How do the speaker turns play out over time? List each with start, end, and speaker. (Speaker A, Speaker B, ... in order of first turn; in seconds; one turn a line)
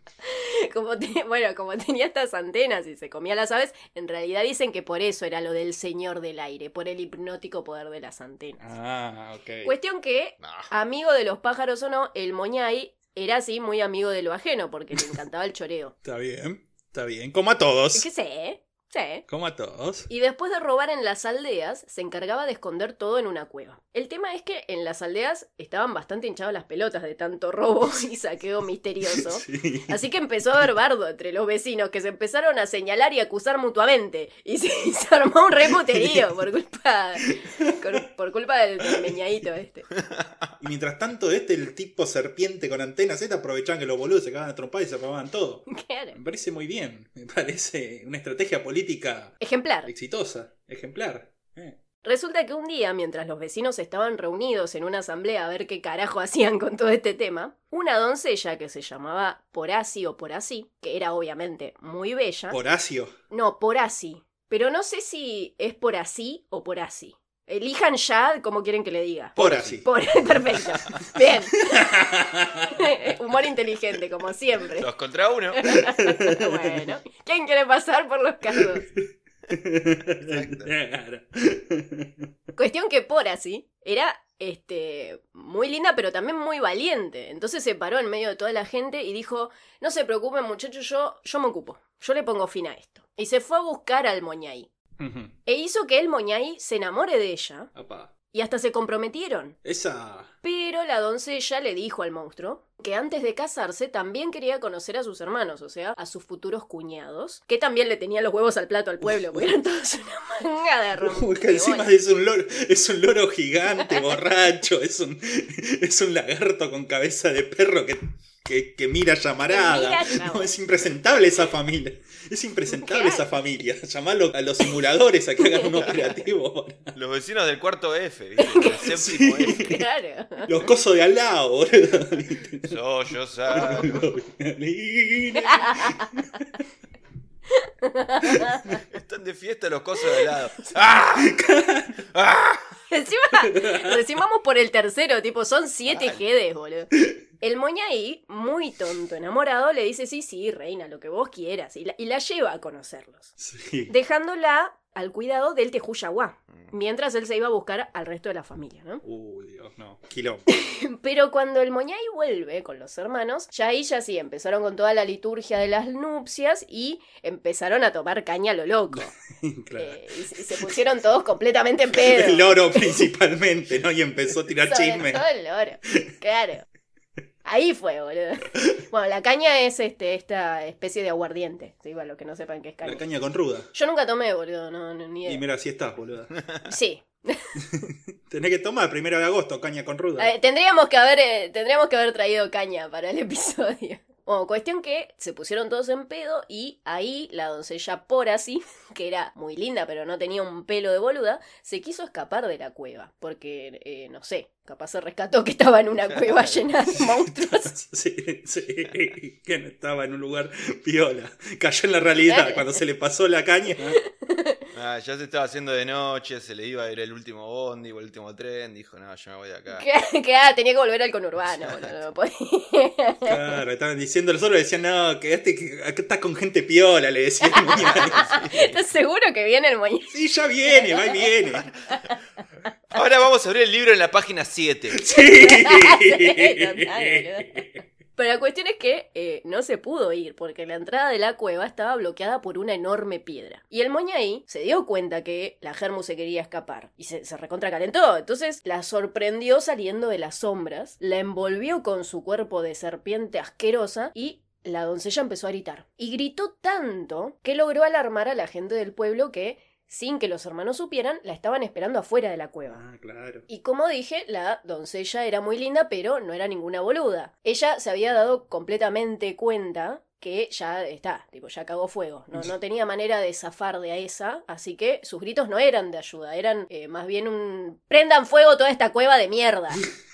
Speaker A: 0.2-8.6
Speaker B: 8.6-9.7
Speaker A: 9.6-15.9
Speaker C: 10.4-10.7
Speaker B: 16.0-18.1
Speaker A: 17.9-19.2
Speaker B: 19.3-20.1
Speaker A: 20.1-39.9
Speaker B: 29.1-30.0
Speaker B: 35.7-36.3
Speaker B: 37.3-38.0
Speaker C: 40.0-40.5
Speaker B: 40.6-49.3
Speaker A: 45.7-46.2
Speaker A: 49.4-49.9
Speaker B: 49.9-51.8
Speaker A: 52.0-62.6
Speaker B: 62.5-63.1
Speaker A: 63.3-72.0
Speaker B: 69.3-69.9
Speaker C: 69.4-69.8
Speaker B: 71.6-72.9
Speaker A: 72.7-74.9
Speaker C: 74.8-75.8
Speaker A: 75.5-78.8
Speaker B: 75.9-76.8
Speaker B: 78.5-82.3
Speaker C: 80.2-80.7
Speaker A: 82.5-94.7
Speaker B: 95.0-95.3
Speaker A: 95.5-97.7
Speaker B: 97.7-98.1
Speaker A: 98.3-99.5
Speaker B: 99.6-100.3
Speaker A: 100.4-111.9
Speaker B: 109.0-109.5
Speaker B: 111.0-126.9
Speaker A: 113.8-114.1
Speaker A: 119.5-120.5
Speaker A: 122.8-123.2
Speaker A: 125.4-125.8
Speaker C: 126.9-129.8
Speaker A: 128.4-128.8
Speaker B: 128.8-129.8
Speaker A: 129.5-130.7
Speaker B: 130.4-132.7
Speaker C: 132.6-134.0
Speaker B: 133.5-136.6
Speaker A: 135.4-136.1
Speaker A: 137.5-138.8
Speaker C: 138.9-141.4
Speaker B: 141.2-142.0
Speaker C: 142.1-142.7
Speaker A: 142.9-153.3
Speaker B: 143.4-144.0
Speaker C: 145.9-146.2
Speaker B: 153.4-153.9
Speaker A: 153.9-159.0
Speaker B: 159.0-160.4
Speaker A: 160.5-169.1
Speaker B: 168.9-170.8
Speaker A: 169.8-173.0
Speaker B: 171.9-175.2
Speaker A: 174.6-176.7
Speaker B: 175.8-176.1
Speaker A: 177.4-183.0
Speaker B: 182.8-183.7
Speaker A: 183.7-185.4
Speaker B: 185.2-186.3
Speaker A: 186.7-187.6
Speaker B: 187.6-190.3
Speaker A: 190.2-207.7
Speaker C: 206.1-206.7
Speaker B: 206.9-214.0
Speaker A: 212.2-212.7
Speaker A: 213.9-214.6
Speaker C: 214.7-219.8
Speaker A: 219.7-223.6
Speaker B: 223.2-228.2
Speaker A: 227.4-230.1
Speaker C: 227.8-228.8
Speaker B: 230.1-231.7
Speaker A: 230.7-231.2
Speaker A: 231.9-232.2
Speaker C: 232.9-235.0
Speaker B: 234.9-237.8
Speaker A: 235.1-262.8
Speaker B: 262.7-263.4
Speaker A: 263.5-279.8